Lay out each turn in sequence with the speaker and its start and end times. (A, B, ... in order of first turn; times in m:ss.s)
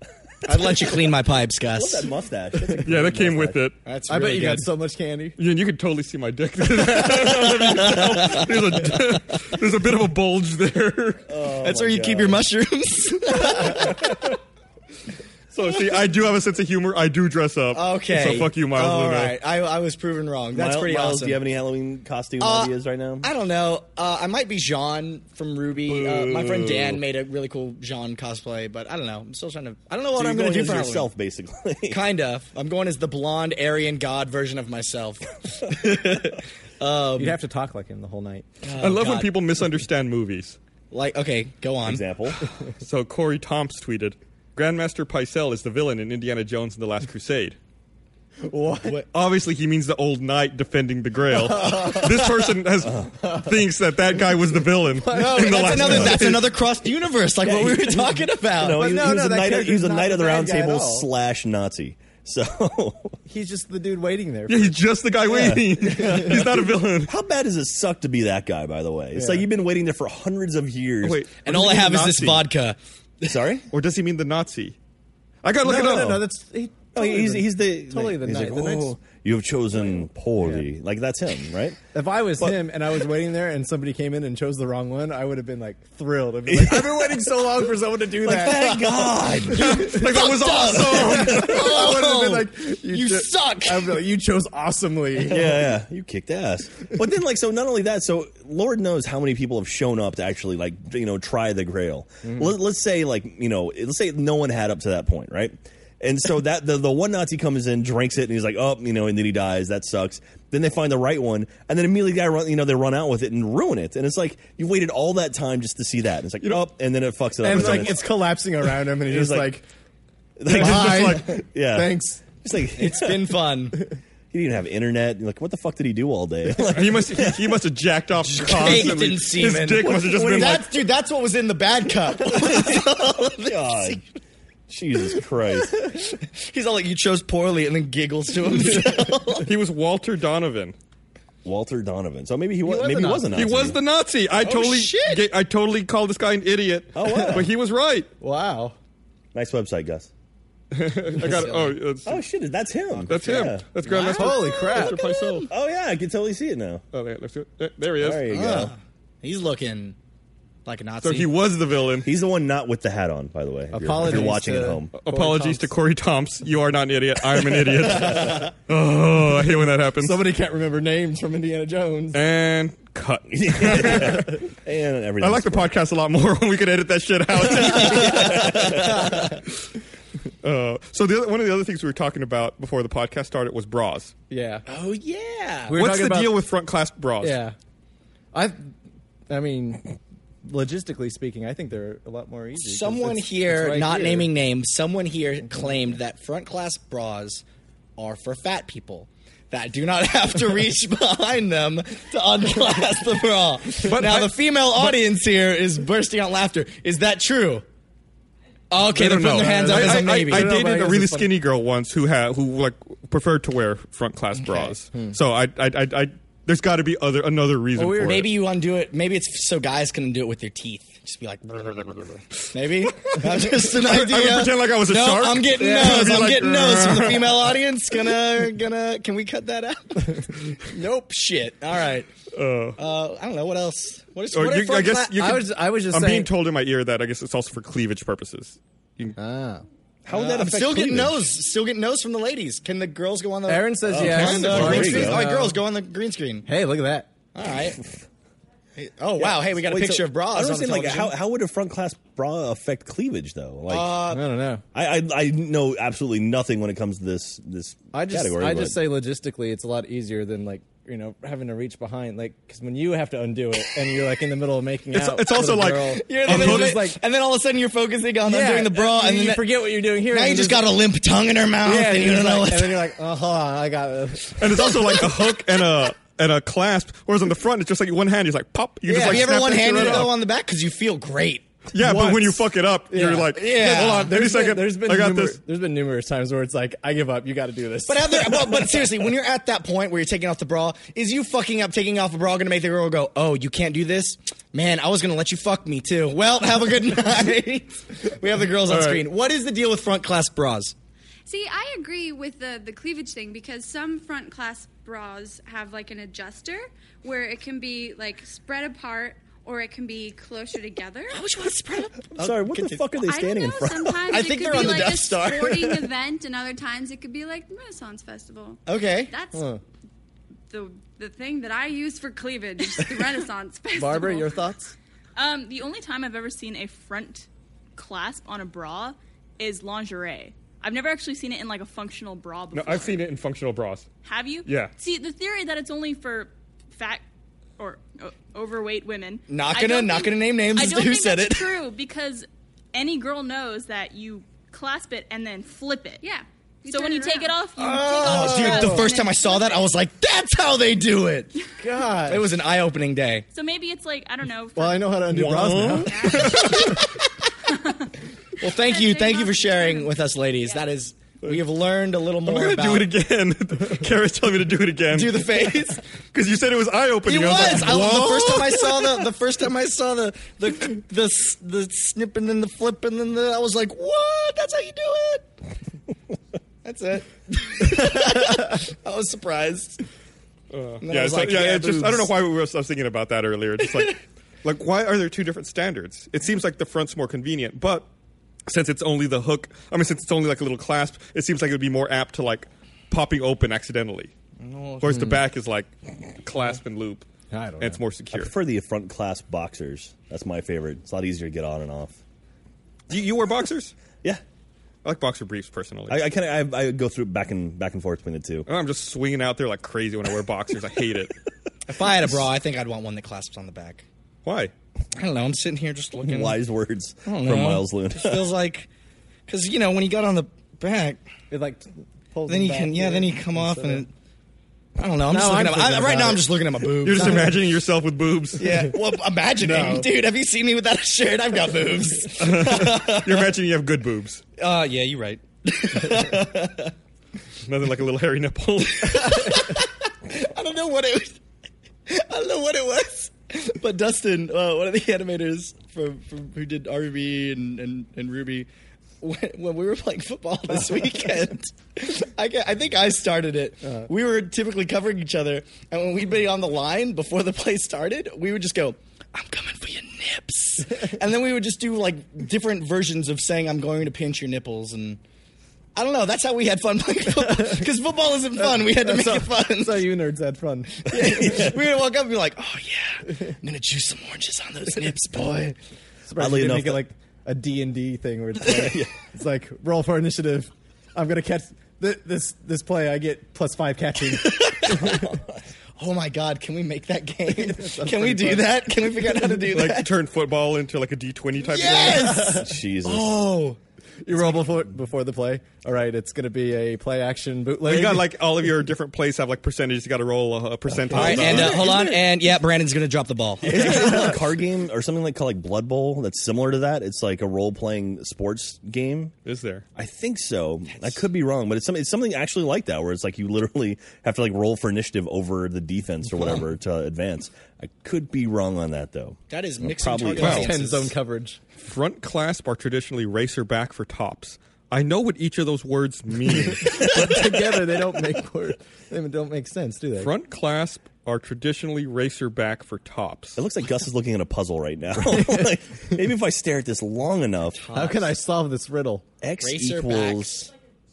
0:00.4-0:00.9 A
0:00.4-0:02.1 B
0:01.7-0:03.6 A
0:02.8-0:03.8 C
0:03.8-0:04.7 B
0:04.1-0:05.4 D
0:05.4-0:11.3 C
0:11.3-0:12.4 A
0:11.6-0:14.3 B
0:15.5-0:19.4 C
0:17.7-0:21.4 B
0:20.5-0:23.3 A
0:22.4-0:31.1 B
0:25.9-0:27.0 A
0:30.1-0:32.0 A
0:31.9-0:37.4 B
0:37.2-0:38.4 D
0:38.6-0:39.3 B
0:38.8-0:40.6 C
0:40.9-0:42.0 B
0:41.8-0:42.4 A
0:42.8-0:47.6 C
0:48.4-0:49.0 D
0:49.1-0:56.5 C
0:51.3-0:52.2 D
0:52.8-0:53.4 A
0:54.9-0:56.3 D
0:55.1-0:59.0 B
0:57.5-1:03.2 A
0:58.6-1:01.1 D
1:03.3-1:04.9 D
1:04.5-1:07.1 C
1:05.2-1:11.3 A
1:05.9-1:06.4 D
1:09.1-1:09.5 D
1:11.0-1:12.4 C
1:11.4-1:13.4 B
1:13.2-1:13.6 A
1:13.7-1:14.8 C
1:15.4-1:16.2 C
1:15.6-1:19.0 D
1:15.7-1:16.2 A
1:16.9-1:21.8 A
1:19.7-1:20.7 D
1:21.9-1:29.9 D
1:26.5-1:27.4 A
1:28.1-1:30.1 A
1:29.5-1:31.6 C
1:29.8-1:34.0 B
1:30.7-1:35.7 D
1:35.2-1:58.2 A
1:42.2-1:42.6 D
1:57.4-1:59.6 D
1:57.5-1:57.8 C
1:58.9-1:59.6 A
2:00.4-2:03.3 A
2:00.4-2:02.2 D
2:00.5-2:01.2 C
2:02.8-2:03.8 B
2:04.3-2:07.6 A
2:06.6-2:10.7 C
2:08.4-2:14.0 B
2:12.2-2:14.0 A
2:14.7-2:16.0 A
2:15.8-2:19.5 B
2:19.4-2:20.8 C
2:21.4-2:23.8 A
2:22.6-2:23.5 D
2:23.3-2:28.1 C
2:24.4-2:25.3 B
2:26.9-2:27.5 A
2:28.2-2:28.8 D
2:29.3-2:30.1 A
2:30.7-2:32.2 C
2:31.2-2:31.7 B
2:32.0-2:33.7 A
2:33.1-2:35.5 C
2:33.9-2:35.1 D
2:34.1-2:35.4 B
2:35.5-2:36.8 A
2:36.9-2:38.3 C
2:38.0-2:38.7 A
2:38.3-2:40.0 B
2:40.6-2:41.3 B
2:41.0-2:42.1 C
2:42.0-2:44.9 A
2:43.7-2:45.7 D
2:44.0-2:44.4 C
2:44.9-2:50.2 C
2:47.8-2:48.4 D
2:50.0-2:52.2 D
2:52.1-2:54.4 C
2:53.3-2:55.7 A
2:55.2-2:59.3 C
2:57.6-2:59.3 A
2:58.8-2:59.3 D
3:00.4-3:04.1 C
3:04.3-3:04.6 D
3:04.7-3:05.8 B
3:05.7-3:06.4 D
3:05.7-3:07.4 C
3:07.2-3:07.6 D
3:08.3-3:08.7 D
3:09.3-3:14.3 D
3:12.6-3:17.4 B
3:18.0-3:27.6 B
3:23.8-3:24.3 C
3:28.7-3:30.5 B
3:28.8-3:38.3 C
3:29.2-3:31.4 D
3:34.4-3:34.7 B
3:37.7-3:38.3 D
3:38.0-3:52.1 B
3:43.0-3:47.5 C
3:45.6-3:46.3 D
3:52.3-3:52.8 C
3:52.8-3:55.3 B
3:54.3-3:59.2 C
3:55.1-3:56.3 D
3:59.2-3:59.6 D
4:00.0-4:01.2 A
4:00.1-4:06.5 B
4:03.4-4:05.6 D
4:03.9-4:05.2 A
4:06.4-4:07.1 D
4:07.3-4:07.8 B
4:08.8-4:11.2 B
4:09.2-4:14.0 A
4:13.7-4:14.2 B
4:14.1-4:14.6 D
4:14.7-4:18.8 A
4:17.9-4:27.0 D
4:24.9-4:26.8 C
4:26.0-4:32.9 B
4:28.2-4:30.7 D
4:31.6-4:35.0 D
4:34.4-4:40.2 C
4:38.9-4:40.1 D
4:38.9-4:41.5 B
4:41.7-4:45.4 C
4:41.8-4:48.9 D
4:43.4-4:44.1 B
4:47.9-5:00.7 B
4:58.7-4:59.0 C
5:01.2-5:11.2 E
5:11.1-5:12.9 B
5:12.2-5:14.1 A
5:12.9-5:19.5 E
5:14.1-5:15.9 B
5:18.6-5:19.1 B
5:19.3-5:19.6 D
5:20.5-5:24.4 E
5:23.7-5:24.7 D
5:25.2-5:33.0 F
5:32.5-5:33.9 C
5:34.0-5:37.0 F
5:34.4-5:34.7 C
5:37.6-5:46.0 F
5:39.3-5:41.6 B
5:46.0-5:49.6 E
5:46.7-5:49.0 F
5:47.6-5:51.4 B
5:51.6-5:52.3 D
5:52.0-5:53.3 B
5:53.3-5:55.0 F
5:54.5-5:56.4 D
5:55.1-5:56.4 A
5:55.9-5:56.8 E
5:58.4-6:02.9 B
5:58.4-6:00.0 E
6:02.2-6:05.4 C
6:04.9-6:05.8 B
6:06.1-6:08.8 C
6:07.0-6:15.3 B
6:16.6-6:19.8 B
6:20.5-6:27.9 C
6:20.8-6:22.1 B
6:28.4-6:34.1 C
6:34.4-6:35.1 B
6:34.8-6:35.7 C
6:34.8-6:35.2 D
6:36.2-6:37.0 C
6:37.3-6:37.8 D
6:37.6-6:38.3 C
6:38.1-6:42.0 A
6:42.9-6:43.7 C
6:44.8-6:46.1 C
6:45.9-6:48.5 A
6:48.5-6:51.1 C
6:51.7-6:53.8 B
6:54.2-6:54.5 C
6:54.9-6:56.4 B
6:56.0-6:58.3 A
6:57.0-6:58.7 B
6:59.3-7:01.0 B
7:01.3-7:03.8 D
7:02.3-7:03.9 B
7:04.8-7:07.3 B
7:05.1-7:06.4 D
7:06.8-7:08.5 C
7:08.4-7:13.3 B
7:09.4-7:09.9 D
7:12.2-7:14.2 C
7:14.4-7:16.7 B
7:17.4-7:19.1 C
7:18.8-7:21.2 B
7:21.9-7:28.5 B
7:29.0-7:45.0 B
7:45.8-7:50.0 B
7:48.4-7:51.3 D
7:50.8-7:55.6 B
7:51.0-7:51.5 A
7:56.1-8:05.0 D
7:56.2-7:56.8 A
7:58.6-7:58.9 A
8:04.1-8:05.1 B
8:05.8-8:09.9 B
8:07.3-8:08.6 D
8:09.5-8:12.2 C
8:11.5-8:13.6 B
8:11.9-8:12.4 D
8:12.2-8:13.3 A
8:14.0-8:18.2 D
8:17.6-8:21.6 C
8:20.7-8:21.4 D
8:20.9-8:22.1 A
8:20.9-8:24.2 B
8:23.4-8:29.1 A
8:23.5-8:24.2 D
8:29.2-8:29.6 C
8:29.8-8:40.5 A
8:30.7-8:31.0 B
8:39.3-8:40.9 B
8:40.2-8:41.4 D
8:40.2-8:40.5 C
8:41.6-8:46.9 C
8:46.4-8:50.1 D
8:50.0-8:53.4 C
8:53.4-8:57.7 A
8:55.0-8:55.6 D
8:57.5-8:58.1 B
8:57.7-8:59.0 D
8:59.2-9:00.5 A
8:59.4-9:00.5 B